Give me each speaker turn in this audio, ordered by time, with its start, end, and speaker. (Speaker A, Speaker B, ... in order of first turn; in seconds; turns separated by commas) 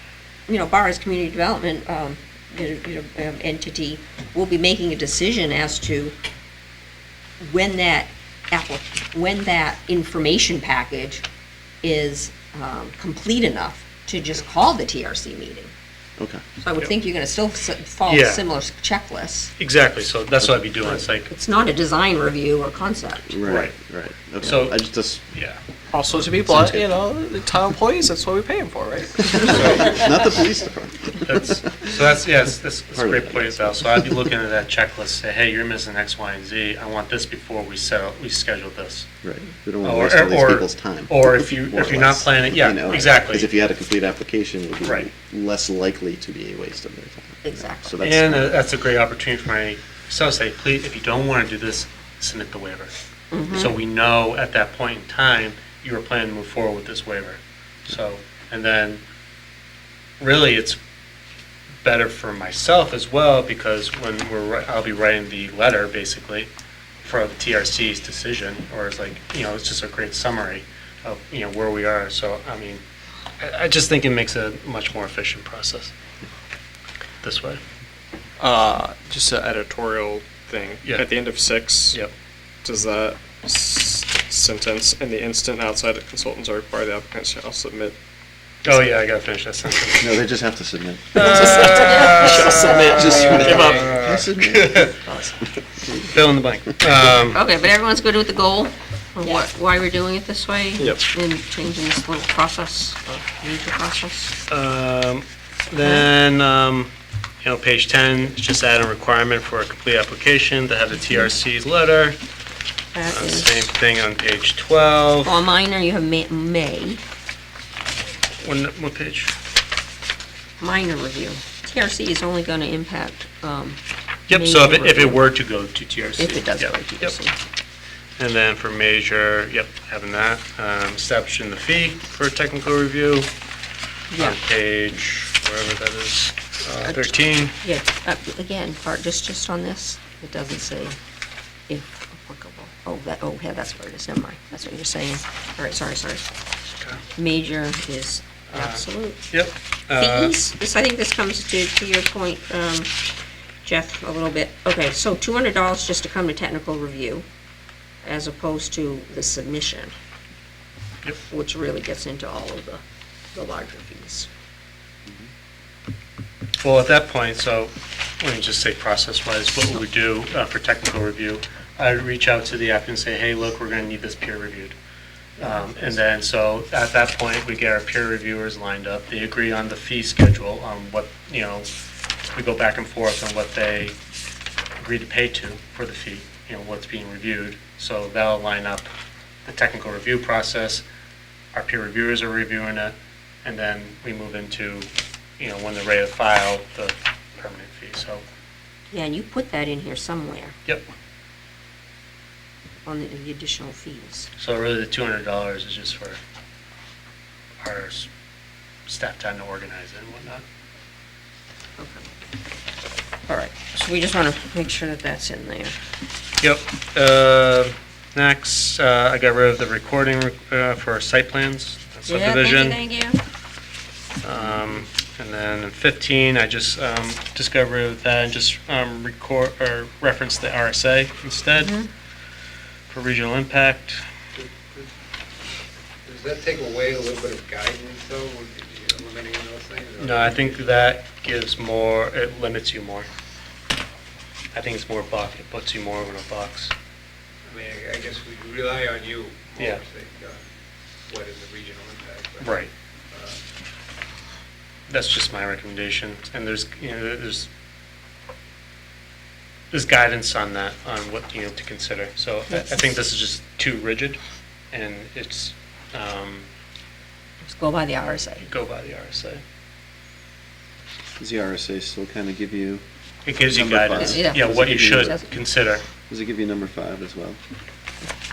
Speaker A: 0.5-6.1, Speaker A: 7.4-11.2, Speaker A: 11.8-15.7, Speaker A: 16.6-19.5, Speaker B: 18.1-18.4, Speaker B: 19.6-21.3, Speaker A: 21.3-23.3, Speaker C: 23.3-25.2, Speaker B: 23.4-23.7, Speaker B: 24.4-25.6, Speaker D: 25.9-29.6, Speaker C: 26.4-26.9, Speaker C: 29.3-31.9, Speaker B: 29.4-29.9, Speaker B: 31.2-39.1, Speaker C: 32.9-34.3, Speaker C: 39.2-48.6, Speaker B: 39.8-43.5, Speaker B: 44.8-45.1, Speaker A: 47.4-47.9, Speaker B: 48.0-52.9, Speaker A: 53.3-53.7, Speaker B: 53.5-59.0, Speaker B: 60.2-60.8, Speaker B: 61.8-66.5, Speaker B: 67.0-72.8, Speaker B: 73.4-75.9, Speaker B: 77.2-77.6, Speaker D: 78.4-82.0, Speaker D: 82.6-88.0, Speaker B: 88.6-90.1, Speaker C: 90.0-94.9, Speaker B: 91.2-93.4, Speaker D: 91.2-94.0, Speaker A: 91.8-92.3, Speaker B: 94.0-95.0, Speaker B: 96.1-97.4, Speaker A: 97.3-104.3, Speaker D: 100.8-101.1, Speaker B: 104.5-112.2, Speaker A: 112.9-113.7, Speaker B: 113.1-115.4, Speaker A: 115.2-117.0, Speaker B: 118.4-119.3, Speaker A: 120.6-125.2, Speaker B: 124.3-127.2, Speaker A: 126.2-127.3, Speaker B: 128.2-133.3, Speaker A: 134.1-134.4, Speaker B: 134.2-137.5, Speaker A: 136.8-141.0, Speaker A: 141.7-146.2, Speaker A: 147.2-149.3, Speaker B: 148.5-150.4, Speaker A: 149.9-152.9, Speaker A: 153.6-157.2, Speaker A: 158.0-159.9, Speaker A: 161.3-162.8, Speaker A: 163.3-164.3, Speaker B: 166.6-174.7, Speaker A: 175.4-175.9, Speaker B: 175.4-181.7, Speaker B: 182.3-184.0, Speaker B: 184.8-188.9, Speaker B: 189.4-190.8, Speaker B: 191.5-198.2, Speaker A: 198.9-200.5, Speaker A: 202.8-204.3, Speaker B: 204.4-206.2, Speaker B: 207.6-208.1, Speaker B: 208.9-210.4, Speaker A: 211.8-212.0, Speaker A: 213.3-215.8, Speaker B: 216.4-222.8, Speaker A: 222.1-223.2, Speaker B: 224.2-231.7, Speaker A: 231.6-231.9, Speaker B: 232.9-234.0, Speaker E: 234.3-234.8, Speaker E: 236.1-240.5, Speaker B: 240.0-243.1, Speaker B: 244.5-246.7, Speaker E: 247.5-250.4, Speaker B: 249.6-249.8, Speaker E: 251.1-252.5, Speaker B: 252.4-252.7, Speaker E: 253.1-253.4, Speaker B: 254.9-257.5, Speaker B: 259.7-264.2, Speaker B: 264.7-266.5, Speaker A: 267.4-268.4, Speaker B: 268.4-269.4, Speaker C: 271.2-272.8, Speaker B: 273.2-275.8, Speaker C: 273.4-275.2, Speaker A: 273.9-275.3, Speaker C: 276.1-277.4